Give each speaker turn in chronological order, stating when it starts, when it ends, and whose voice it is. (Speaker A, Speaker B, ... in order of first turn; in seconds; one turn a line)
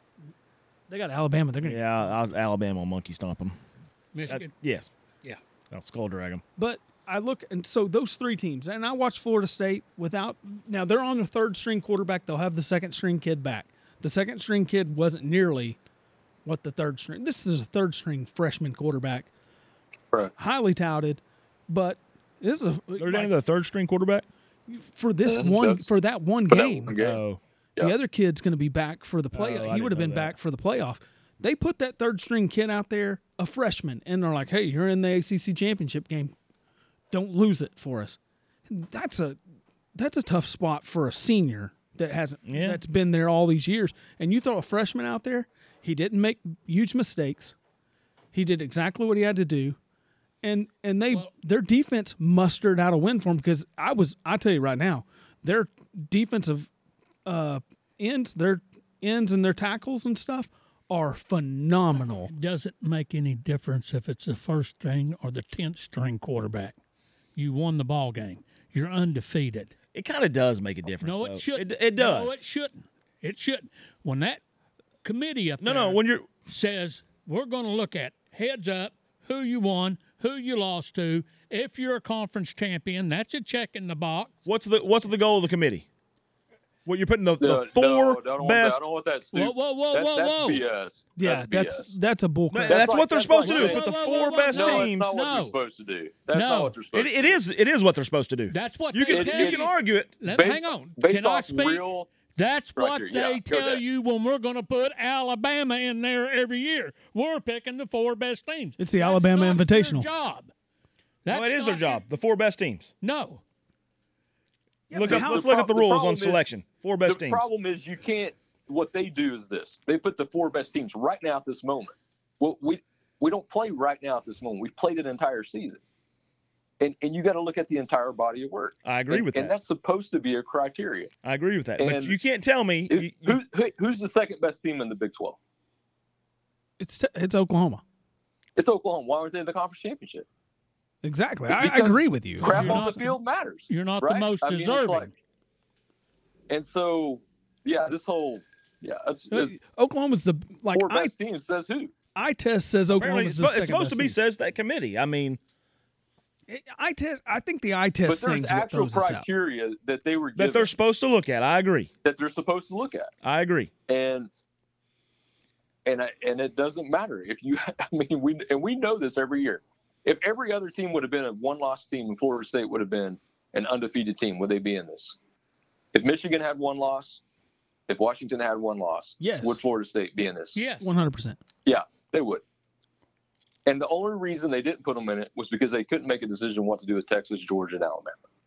Speaker A: 0.9-2.1
Speaker B: 1.6-3.6
Speaker C: 4.1-4.5
Speaker B: 4.3-4.9
Speaker B: 5.7-6.4
Speaker A: 6.6-15.8
Speaker A: 16.4-19.3
Speaker A: 20.4-23.4
Speaker B: 23.0-24.3
Speaker A: 24.7-26.9
Speaker D: 25.3-25.9
Speaker D: 26.5-27.2
Speaker B: 26.9-27.4
Speaker A: 27.8-36.3
Speaker B: 29.3-30.4
Speaker A: 37.1-39.4
Speaker A: 40.0-47.5
Speaker B: 42.5-42.8
Speaker A: 48.3-49.8
Speaker A: 50.4-56.7
Speaker A: 57.2-62.3
Speaker C: 62.3-66.8
Speaker C: 67.4-69.7
Speaker B: 69.9-72.4
Speaker C: 71.0-74.4
Speaker C: 75.0-84.3
Speaker B: 75.6-76.3
Speaker B: 84.5-85.9
Speaker B: 86.8-88.9
Speaker D: 87.4-92.0
Speaker C: 89.3-90.6
Speaker A: 91.2-92.9
Speaker B: 92.5-95.1
Speaker D: 92.7-97.4
Speaker C: 93.4-95.6
Speaker C: 96.3-96.8
Speaker B: 96.9-100.1
Speaker C: 98.5-110.5
Speaker D: 99.1-99.7
Speaker D: 100.3-102.1
Speaker D: 102.8-103.8
Speaker A: 108.8-110.1
Speaker C: 111.2-112.0
Speaker B: 111.3-112.9
Speaker C: 113.0-113.4
Speaker A: 114.9-115.5
Speaker B: 114.9-117.5
Speaker D: 115.0-116.4
Speaker D: 117.1-125.8
Speaker D: 126.8-131.1
Speaker B: 128.8-129.6
Speaker B: 131.2-133.4
Speaker D: 131.8-132.2
Speaker D: 132.9-135.4
Speaker A: 136.8-137.8
Speaker D: 138.6-140.3
Speaker A: 141.0-143.0
Speaker D: 141.5-145.1
Speaker C: 142.4-143.2
Speaker C: 143.7-145.1
Speaker D: 146.5-149.6
Speaker A: 149.3-151.1
Speaker D: 150.7-151.9
Speaker A: 152.2-154.2
Speaker B: 152.9-155.4
Speaker A: 156.5-159.3
Speaker D: 158.1-160.7
Speaker B: 160.3-161.9
Speaker D: 162.0-163.1
Speaker B: 163.2-163.7
Speaker D: 163.9-164.3
Speaker D: 165.8-175.2
Speaker D: 175.9-177.2
Speaker D: 177.9-180.6
Speaker A: 179.2-179.6
Speaker C: 180.6-180.9
Speaker A: 180.8-181.4
Speaker D: 181.7-182.4
Speaker D: 183.7-188.2